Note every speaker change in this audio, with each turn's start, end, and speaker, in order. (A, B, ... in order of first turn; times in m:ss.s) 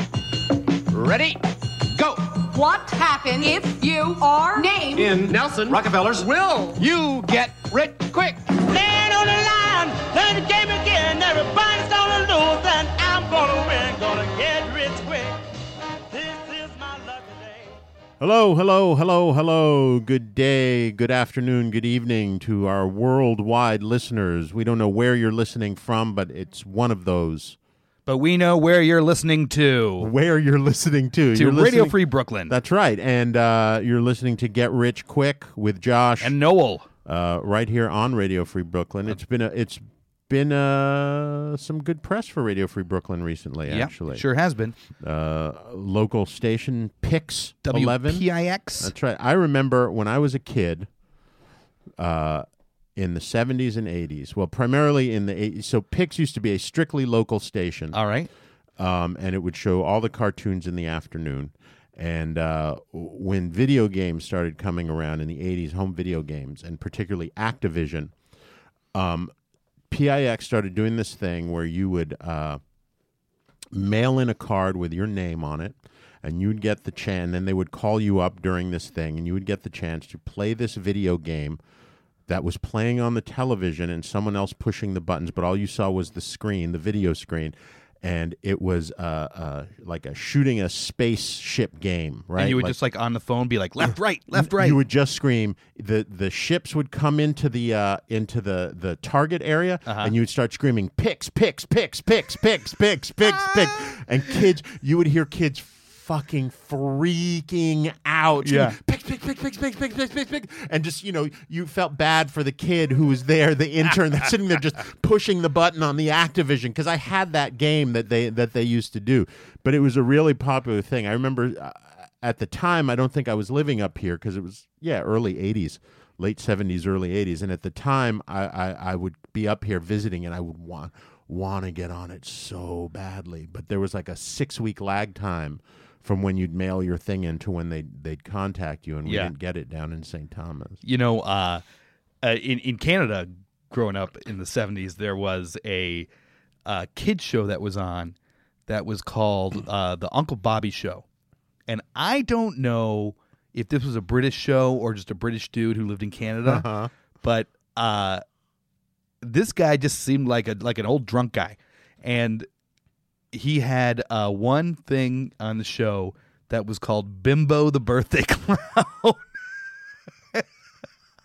0:00.9-0:01.4 A
0:01.9-0:02.5 A
0:02.5-0:05.2 B
0:04.9-0:08.5 A
0:08.7-0:15.4 C
0:16.1-0:17.8 C
0:18.2-0:27.6 D
0:28.1-0:30.1 E
0:30.0-0:36.4 D
0:31.3-0:32.6 E
0:36.2-0:36.9 E
0:37.0-0:44.3 D
0:43.7-0:44.8 E
0:45.0-0:48.3 D
0:47.6-0:48.9 E
0:48.8-0:50.9 D
0:52.0-0:58.0 D
0:57.9-0:58.3 E
0:58.8-1:08.1 D
1:08.9-1:09.3 D
1:09.9-1:12.6 D
1:13.7-1:21.6 D
1:22.3-1:32.8 D
1:32.4-1:34.8 E
1:34.3-2:20.8 D
1:39.9-1:40.1 E
1:48.4-1:48.8 E
2:19.0-2:19.3 E
2:20.8-2:21.6 E
2:22.2-2:26.1 E
2:26.7-2:28.2 E
2:28.7-2:31.0 E
2:31.7-2:36.7 E
2:36.4-2:36.9 D
2:37.2-2:38.2 E
2:39.2-2:42.5 E
2:43.3-2:49.3 E